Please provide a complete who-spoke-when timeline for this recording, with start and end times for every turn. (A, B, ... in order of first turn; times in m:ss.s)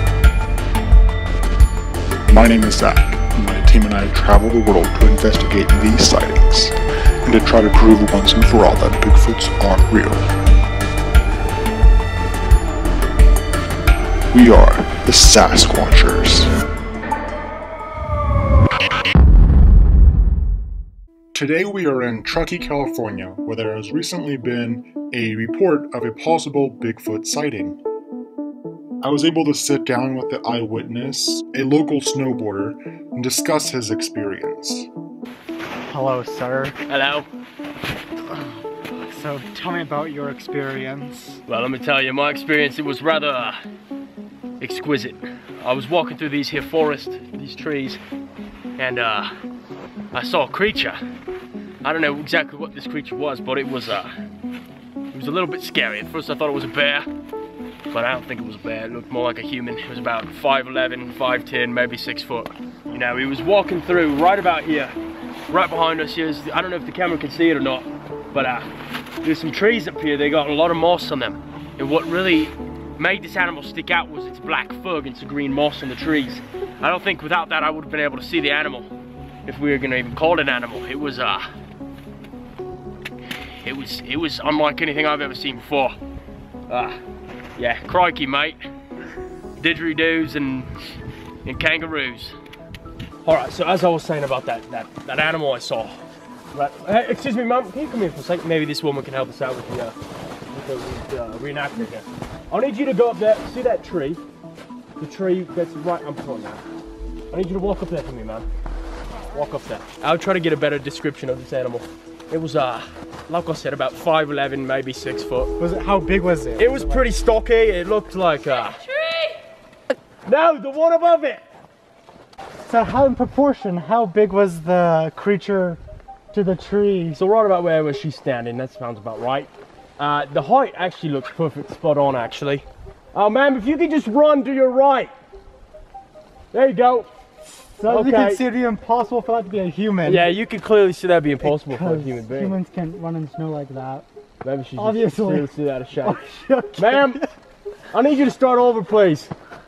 0:02.3-0:06.7 A
0:07.3-0:10.2 A
0:14.3-0:16.5 A
0:21.3-0:27.8 A
0:29.0-0:34.9 A
0:35.9-0:36.8 B
0:36.9-0:37.3 C
0:38.3-0:41.4 B
0:41.5-0:43.6 C
0:44.6-0:48.0 C
0:48.8-0:49.3 C
0:50.1-0:51.0 C
0:51.8-0:54.1 C
0:55.1-0:57.1 C
0:57.9-1:05.0 C
1:05.5-1:08.7 C
1:09.2-1:18.9 C
1:19.4-1:21.5 C
1:23.6-1:26.0 C
1:26.7-1:27.0 C
1:27.6-1:28.6 C
1:29.6-1:30.7 C
1:31.4-1:32.4 C
1:33.2-1:36.0 C
1:36.5-1:40.0 C
1:40.5-1:44.2 C
1:45.0-1:46.6 C
1:47.3-1:48.5 C
1:49.3-1:55.6 C
1:55.6-1:57.1 B
1:56.6-1:58.9 C
2:00.2-2:01.4 C
2:02.6-2:05.8 B
2:06.3-2:07.2 B
2:07.1-2:15.1 C
2:16.5-2:17.1 C
2:17.8-2:20.3 B
2:17.8-2:18.4 C
2:20.0-2:22.6 C
2:21.4-2:24.1 B
2:24.4-2:26.2 C
2:24.8-2:27.3 B
2:26.8-2:27.2 C
2:27.9-2:29.3 C